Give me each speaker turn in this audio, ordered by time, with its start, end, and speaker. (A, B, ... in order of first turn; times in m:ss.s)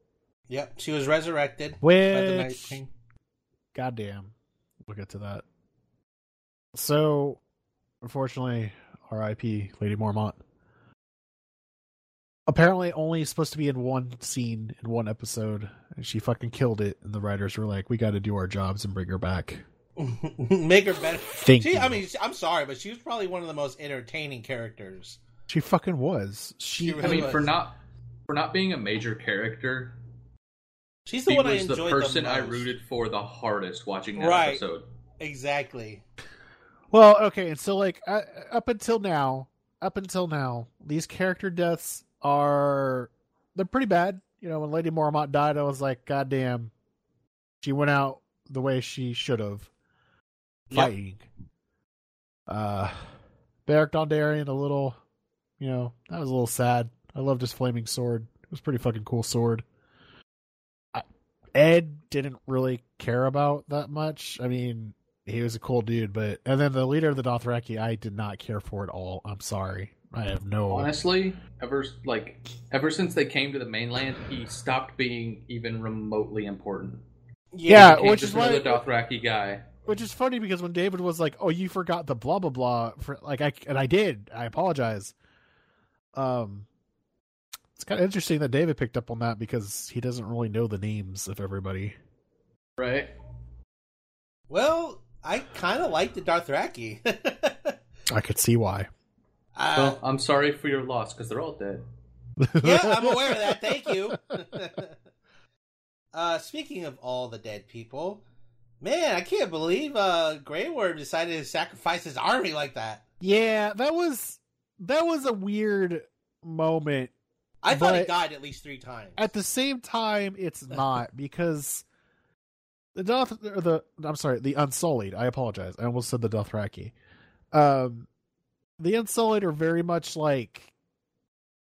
0:00.5-0:02.9 A
0:01.8-0:02.8 B
0:03.7-0:04.3 B
0:04.9-0:05.4 B
0:06.8-0:07.4 B
0:08.0-0:10.4 B
0:12.5-0:19.6 B
0:20.0-0:25.2 A
0:21.4-0:22.0 B
0:25.5-0:27.3 B
0:26.8-0:27.5 A
0:27.0-0:27.8 C
0:28.3-0:30.0 C
0:31.1-0:32.7 A
0:31.3-0:34.8 C
0:34.2-0:34.6 A
0:35.2-0:36.0 A
0:36.9-0:46.7 B
0:47.6-0:49.7 B
0:50.7-0:51.3 B
0:52.5-0:53.1 B
0:53.7-0:55.0 B
0:55.6-0:59.6 B
1:00.9-1:10.9 B
1:10.7-1:17.0 C
1:17.5-1:18.5 A
1:17.7-1:18.8 B
1:17.7-1:19.6 C
1:19.8-1:25.1 B
1:26.2-1:26.7 B
1:27.8-1:32.0 B
1:32.8-1:33.1 C
1:34.5-1:37.8 A
1:38.1-1:38.9 B
1:39.6-1:40.0 A
1:39.8-1:41.8 C
1:42.4-1:44.2 B
1:42.6-1:44.9 A
1:46.1-1:48.2 A
1:48.8-1:53.0 A
1:53.2-1:57.1 B
1:57.6-1:59.3 A
1:57.7-1:58.1 B
1:59.2-2:01.8 B
2:03.0-2:06.9 B
2:07.5-2:08.1 B
2:08.8-2:10.7 B